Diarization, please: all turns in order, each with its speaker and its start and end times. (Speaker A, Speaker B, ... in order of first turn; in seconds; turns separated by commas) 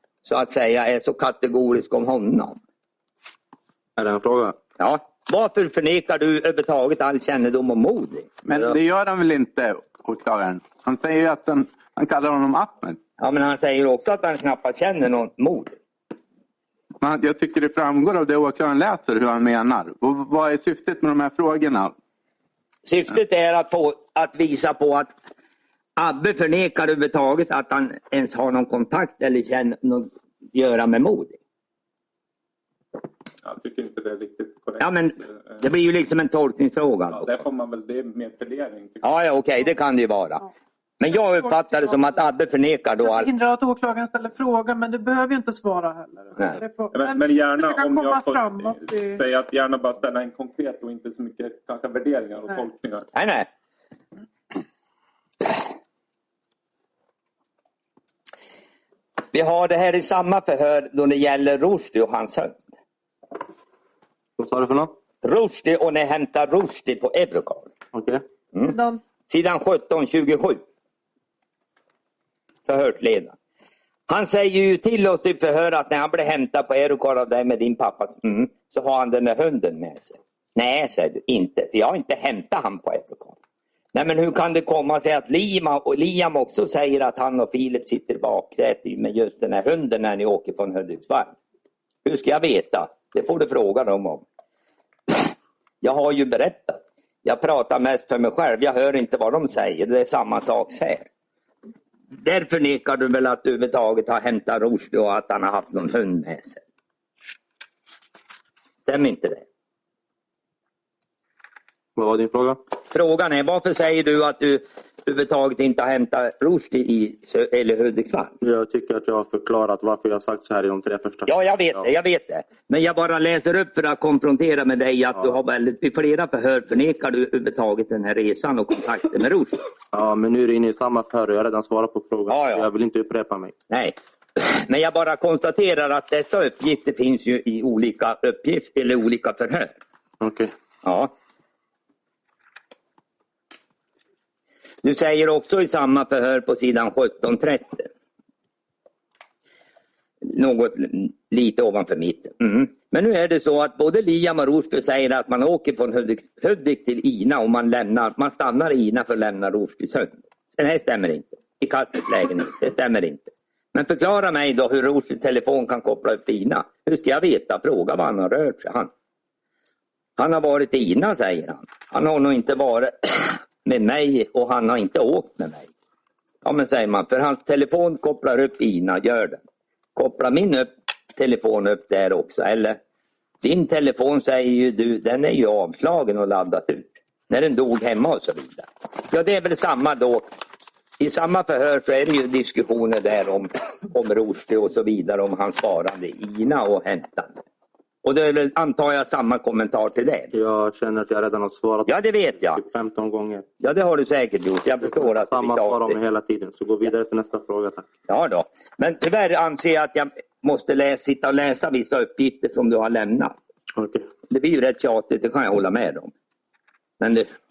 Speaker A: 0.2-2.6, Speaker B: 4.0-4.6, Speaker A: 4.8-8.8, Speaker C: 8.5-13.0, Speaker A: 13.2-15.8, Speaker C: 17.0-21.9, Speaker A: 22.9-25.1, Speaker A: 26.0-31.4, Speaker D: 33.4-35.6, Speaker A: 34.8-37.4, Speaker D: 37.1-39.1, Speaker A: 39.0-40.5, Speaker A: 41.0-43.3, Speaker E: 41.4-41.9, Speaker E: 43.0-49.2, Speaker D: 46.9-53.1, Speaker A: 53.1-53.5, Speaker A: 59.3-62.6, Speaker B: 64.4-64.9, Speaker A: 65.2-67.7, Speaker B: 67.9-68.2, Speaker A: 68.5-70.6, Speaker E: 68.7-69.0, Speaker A: 72.7-73.3, Speaker A: 74.1-83.3, Speaker A: 83.9-91.3, Speaker A: 92.0-94.2, Speaker A: 95.8-101.1, Speaker A: 102.2-106.6, Speaker A: 108.8-109.5, Speaker B: 112.0-112.6, Speaker A: 112.9-118.3, Speaker B: 118.4-121.9, Speaker A: 121.3-129.6, Speaker B: 129.9-133.5, Speaker A: 132.3-132.7, Speaker A: 133.7-139.7, Speaker B: 140.2-140.5, Speaker A: 140.8-141.1, Speaker A: 144.8-147.9, Speaker A: 150.2-168.9, Speaker A: 170.2-175.7, Speaker A: 176.4-179.4, Speaker A: 180.0-182.8, Speaker A: 183.4-190.3, Speaker A: 191.0-197.4, Speaker A: 198.0-200.3, Speaker B: 200.3-203.4, Speaker A: 201.9-202.6, Speaker A: 203.6-206.0, Speaker B: 204.8-207.9, Speaker A: 208.1-213.4, Speaker B: 213.8-214.1, Speaker A: 214.3-216.1, Speaker A: 217.0-217.3